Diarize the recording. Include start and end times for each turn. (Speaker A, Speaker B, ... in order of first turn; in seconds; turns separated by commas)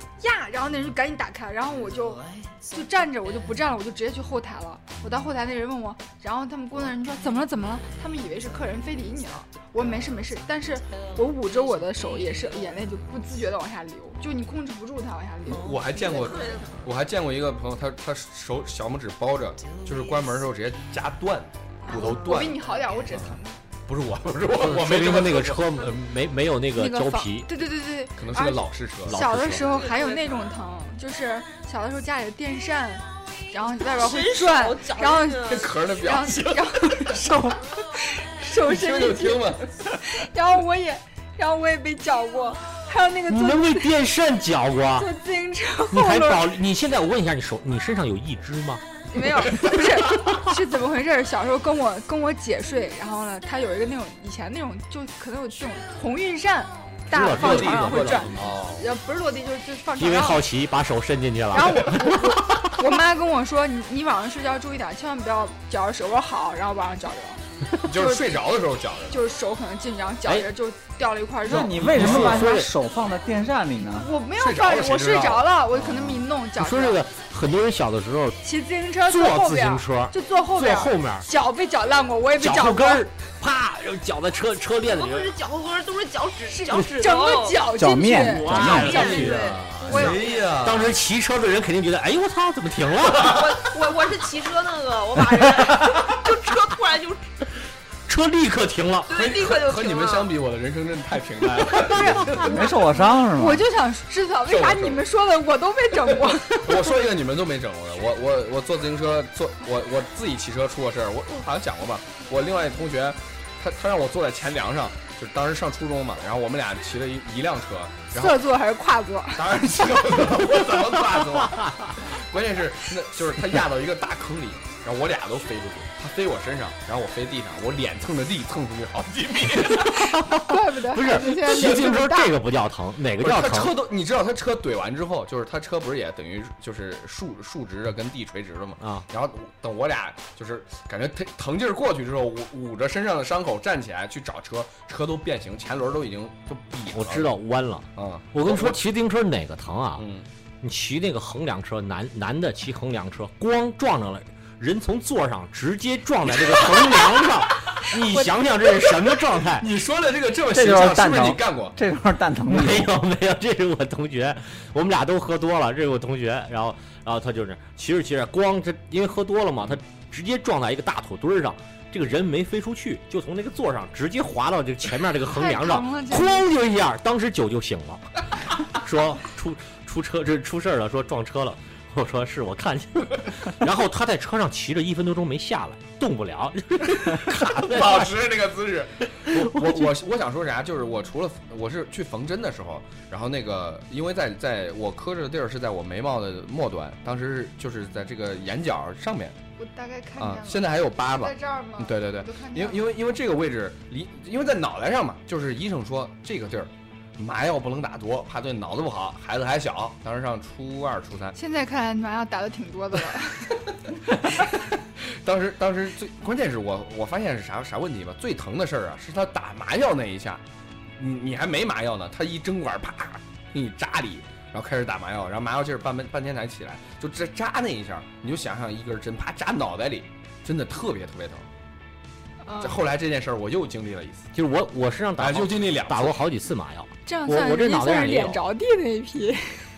Speaker A: 0.2-15.9, Speaker B: 15.5-25.9, Speaker C: 16.0-16.8, Speaker A: 21.9-23.6, Speaker D: 24.6-27.5, Speaker A: 26.8-44.0, Speaker B: 28.2-29.3, Speaker D: 29.1-29.6, Speaker C: 29.6-30.4, Speaker C: 34.0-35.7, Speaker B: 35.5-37.6, Speaker B: 38.6-39.7, Speaker D: 43.3-45.1, Speaker A: 45.0-46.6, Speaker D: 45.9-48.8, Speaker A: 49.1-60.5, Speaker D: 57.1-58.5, Speaker B: 57.1-58.9, Speaker D: 60.0-62.8, Speaker A: 61.5-68.4, Speaker B: 67.8-69.2, Speaker A: 69.1-71.8, Speaker E: 71.5-74.1, Speaker D: 71.7-72.7, Speaker B: 71.8-72.4, Speaker A: 74.0-77.0, Speaker B: 74.4-76.1, Speaker D: 76.6-78.4, Speaker A: 78.4-83.1, Speaker D: 79.1-81.3, Speaker D: 82.4-85.3, Speaker C: 84.8-87.7, Speaker A: 86.5-90.5, Speaker E: 87.7-89.2, Speaker D: 88.2-93.5, Speaker C: 88.7-90.3, Speaker B: 88.9-91.0, Speaker C: 93.2-97.2, Speaker D: 98.1-99.1, Speaker C: 99.1-100.3, Speaker B: 99.1-102.7, Speaker A: 101.9-107.0, Speaker E: 102.1-103.7, Speaker B: 104.5-105.0, Speaker B: 106.1-118.4, Speaker A: 118.1-119.6, Speaker B: 119.4-130.1, Speaker D: 129.9-133.8, Speaker A: 130.2-132.4, Speaker B: 133.2-147.3, Speaker D: 138.8-139.1, Speaker D: 146.9-150.1, Speaker B: 148.0-148.8, Speaker B: 150.0-150.3, Speaker D: 150.6-159.7, Speaker B: 156.4-157.3, Speaker B: 157.8-158.3, Speaker B: 159.6-161.8, Speaker E: 160.5-163.0, Speaker D: 162.5-178.2, Speaker A: 175.2-176.5, Speaker D: 178.7-188.1, Speaker B: 187.1-199.4, Speaker D: 189.2-190.0, Speaker A: 199.6-203.0, Speaker B: 200.2-211.3, Speaker A: 211.3-213.6, Speaker B: 214.1-220.4, Speaker B: 221.0-231.5, Speaker A: 232.4-232.8, Speaker B: 232.6-234.3, Speaker D: 234.3-238.4, Speaker B: 235.2-236.2, Speaker A: 237.1-239.7